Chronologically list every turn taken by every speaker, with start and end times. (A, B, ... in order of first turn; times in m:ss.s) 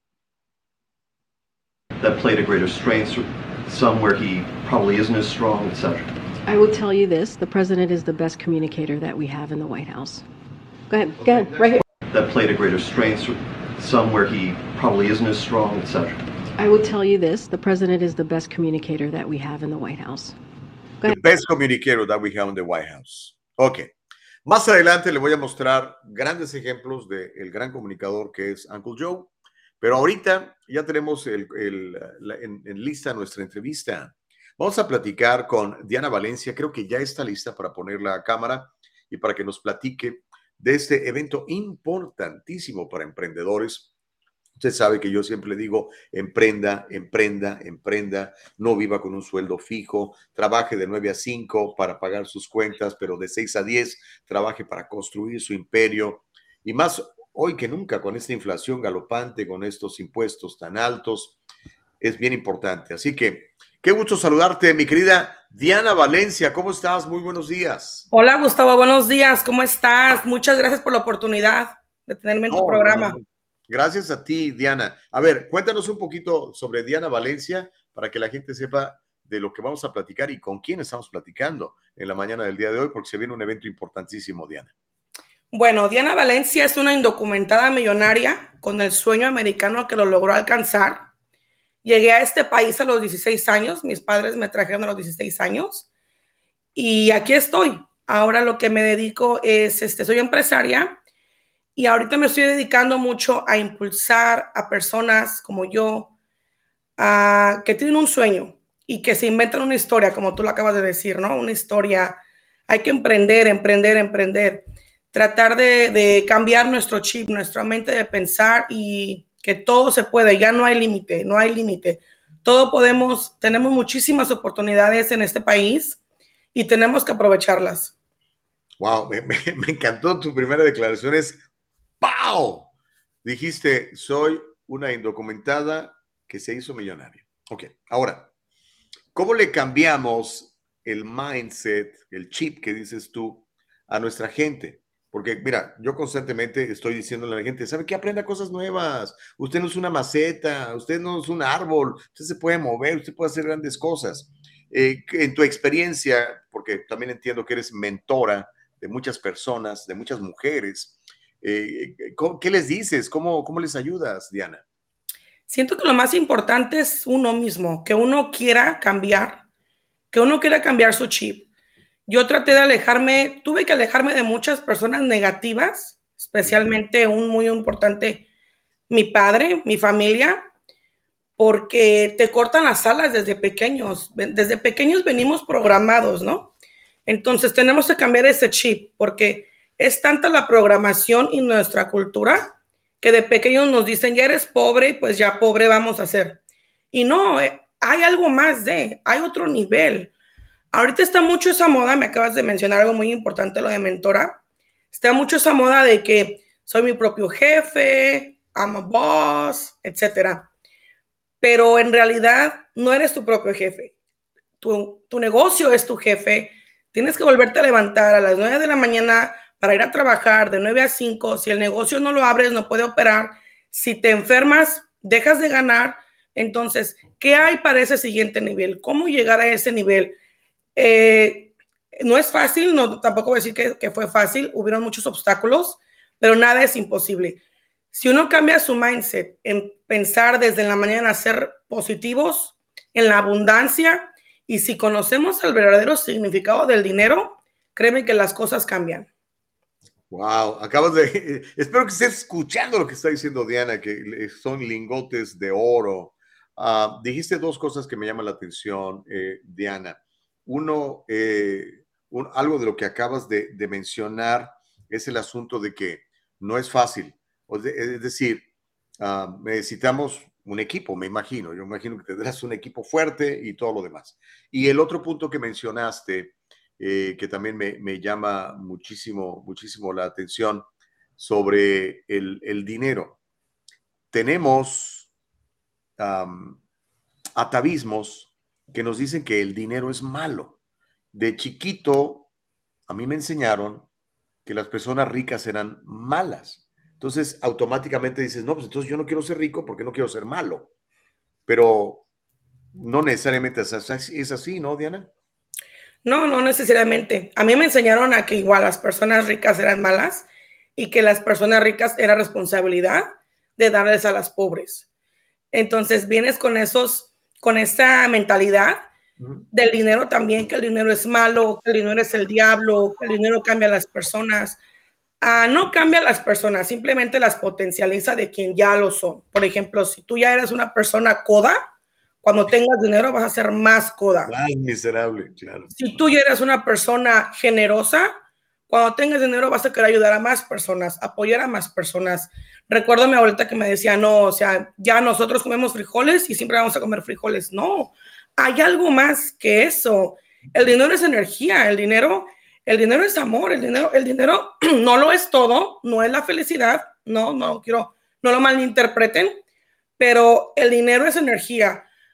0:02.0-0:06.1 A
0:06.4-0:10.2 B
0:10.9-0:11.8 B
0:11.2-0:11.8 C
0:12.1-0:16.2 A
0:16.6-0:20.4 B
0:21.0-0:23.9 C
0:24.4-0:29.3 C
0:29.8-0:43.9 C
0:44.6-1:01.4 C
1:02.0-1:08.1 C
1:08.1-1:13.2 D
1:12.5-1:24.7 C
1:25.5-1:31.1 D
1:31.8-1:35.8 D
1:36.7-1:41.0 D
1:41.7-1:46.1 D
1:47.0-1:52.2 D
1:52.7-2:06.0 D
2:06.5-2:07.9 D
2:08.8-2:11.4 C
2:12.0-2:12.7 C
2:13.2-2:18.3 C
2:19.1-2:44.6 C
2:45.5-2:49.4 D
2:50.1-2:51.5 D
2:52.1-2:58.2 D
2:56.4-2:56.8 C
2:58.9-3:00.4 D
3:01.4-3:06.5 D
3:07.1-3:16.4 D
3:16.9-3:20.1 D
3:20.7-3:24.4 D
3:24.9-3:30.5 D
3:31.4-3:33.9 D
3:34.6-3:50.2 D
3:50.8-3:57.4 D
3:57.9-4:09.1 D
4:10.1-4:28.4 C
4:29.0-4:40.6 C
4:41.2-4:43.2 C
4:44.1-4:45.1 C
4:46.0-4:46.6 C
4:47.4-4:50.6 C
4:51.1-4:52.3 C
4:52.9-4:53.9 C
4:54.4-5:00.7 C
5:01.5-5:02.0 C
5:02.7-5:05.1 C
5:06.0-5:14.8 D
5:15.5-5:18.8 D
5:19.2-5:19.4 C
5:19.5-5:24.6 D
5:25.2-5:31.6 D
5:32.2-5:34.3 D
5:34.2-5:35.8 C
5:35.7-5:38.2 D
5:38.7-5:59.4 D
6:00.0-6:01.8 D